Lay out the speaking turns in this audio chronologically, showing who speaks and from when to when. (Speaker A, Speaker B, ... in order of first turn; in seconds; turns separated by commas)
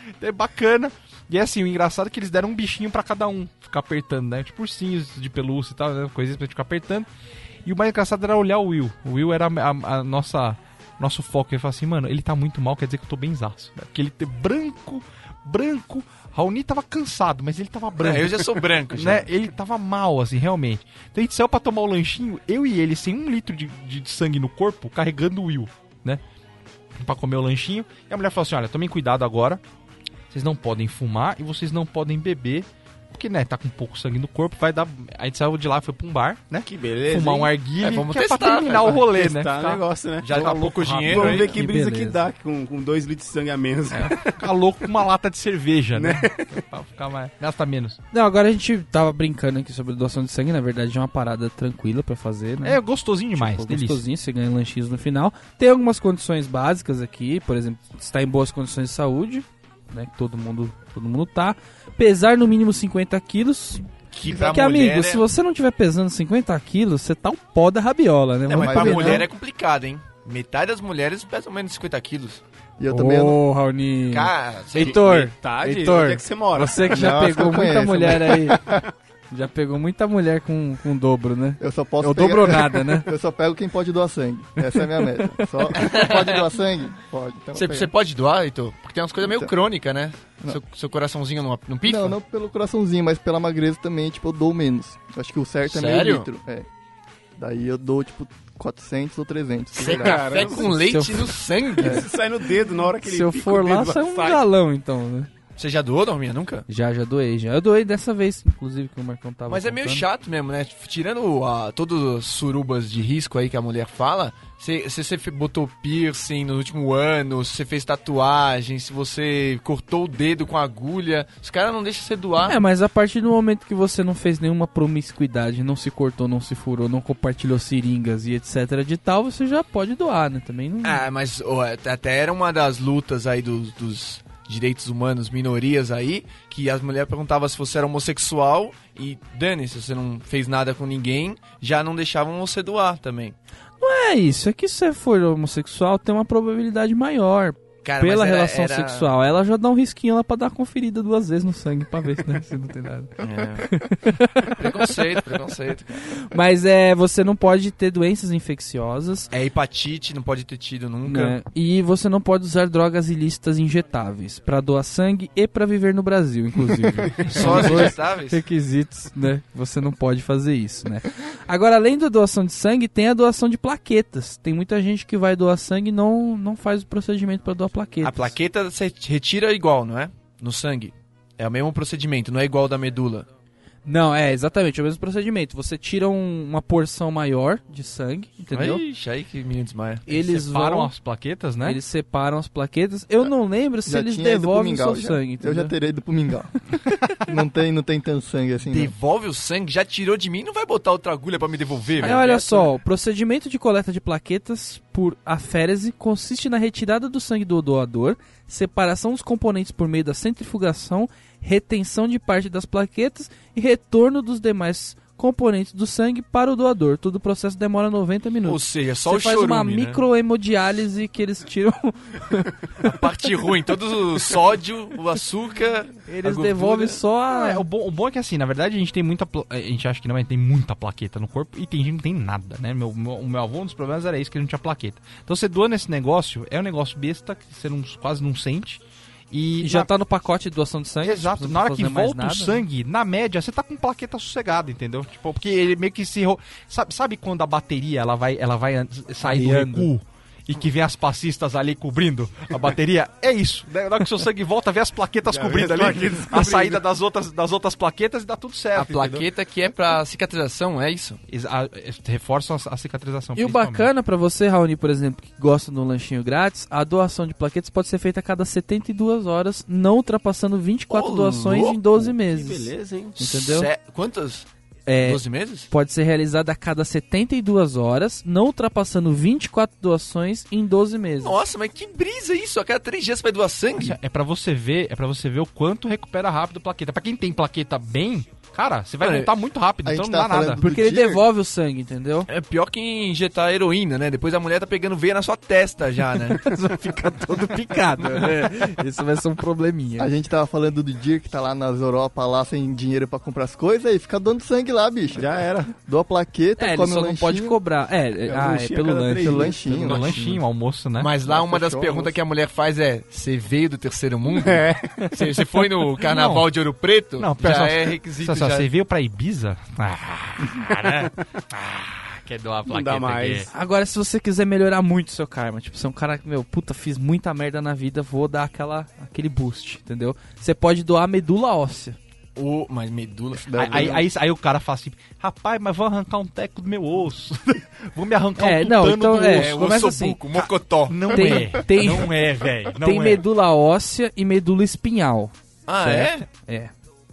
Speaker A: 0.2-7.1, Speaker A: 7.7-26.2, Speaker B: 18.0-19.3, Speaker A: 27.0-29.6, Speaker A: 30.3-41.5, Speaker C: 36.6-37.5, Speaker B: 37.8-39.0, Speaker C: 38.9-44.4, Speaker B: 40.2-41.6, Speaker D: 41.4-42.2, Speaker A: 43.9-48.0, Speaker C: 46.0-46.6, Speaker D: 48.1-52.8, Speaker A: 52.6-54.0, Speaker D: 53.4-63.9, Speaker B: 64.1-65.2, Speaker E: 64.3-64.6, Speaker D: 64.4-69.3, Speaker B: 68.5-72.4, Speaker E: 68.6-69.3, Speaker E: 72.8-73.4, Speaker D: 72.9-78.6, Speaker B: 74.1-75.3, Speaker C: 74.8-77.4, Speaker E: 76.9-78.8, Speaker D: 79.3-83.1, Speaker E: 81.6-87.9, Speaker D: 84.8-85.5, Speaker B: 85.7-86.5, Speaker B: 87.5-92.2, Speaker E: 89.2-89.5, Speaker E: 91.8-96.7, Speaker B: 95.7-96.3, Speaker E: 97.4-100.4, Speaker B: 99.7-102.0, Speaker C: 99.8-100.8, Speaker D: 100.3-101.4, Speaker C: 101.8-104.4, Speaker D: 103.0-105.3, Speaker B: 105.6-106.7, Speaker D: 106.7-110.0, Speaker B: 109.5-122.6, Speaker D: 122.4-131.0, Speaker B: 130.8-143.4, Speaker D: 143.8-155.0, Speaker B: 147.8-149.1, Speaker B: 153.2-153.7, Speaker B: 154.5-156.0, Speaker D: 156.0-159.3, Speaker B: 159.3-161.4, Speaker D: 161.0-178.4, Speaker B: 167.2-168.4, Speaker B: 178.0-183.3, Speaker D: 183.8-188.8, Speaker B: 188.5-190.1, Speaker D: 190.1-190.9, Speaker A: 190.2-191.8, Speaker D: 191.6-195.7, Speaker E: 193.9-196.6, Speaker E: 197.1-198.9, Speaker B: 198.7-202.7, Speaker D: 202.0-223.0, Speaker B: 218.4-220.0, Speaker B: 222.8-227.0, Speaker D: 226.1-227.6, Speaker A: 227.3-239.9, Speaker D: 239.6-242.7, Speaker A: 241.0-259.2, Speaker D: 249.2-249.9, Speaker C: 255.3-256.8, Speaker B: 258.7-261.2, Speaker A: 261.3-263.9, Speaker D: 263.4-273.7, Speaker B: 270.9-271.8, Speaker C: 271.9-273.2, Speaker B: 273.2-274.5, Speaker D: 274.9-281.4, Speaker B: 275.0-275.7, Speaker B: 281.2-284.0, Speaker A: 283.8-290.6, Speaker B: 289.0-289.3, Speaker E: 289.8-291.2, Speaker D: 290.6-292.3, Speaker B: 292.3-296.5, Speaker D: 296.4-300.1, Speaker E: 300.0-307.6, Speaker C: 305.1-305.7, Speaker D: 306.6-310.4, Speaker C: 308.2-309.7, Speaker E: 309.2-310.2, Speaker A: 309.8-311.1, Speaker B: 311.0-318.7, Speaker E: 311.2-312.1, Speaker C: 314.3-315.1, Speaker A: 316.0-316.5, Speaker A: 317.2-323.5, Speaker C: 322.7-323.5, Speaker D: 323.5-332.0, Speaker B: 332.4-334.0, Speaker E: 333.5-334.1, Speaker A: 333.6-339.6, Speaker D: 338.4-340.2, Speaker B: 339.3-341.4, Speaker A: 340.3-343.3, Speaker D: 341.1-342.1, Speaker D: 342.8-346.7, Speaker B: 345.7-346.3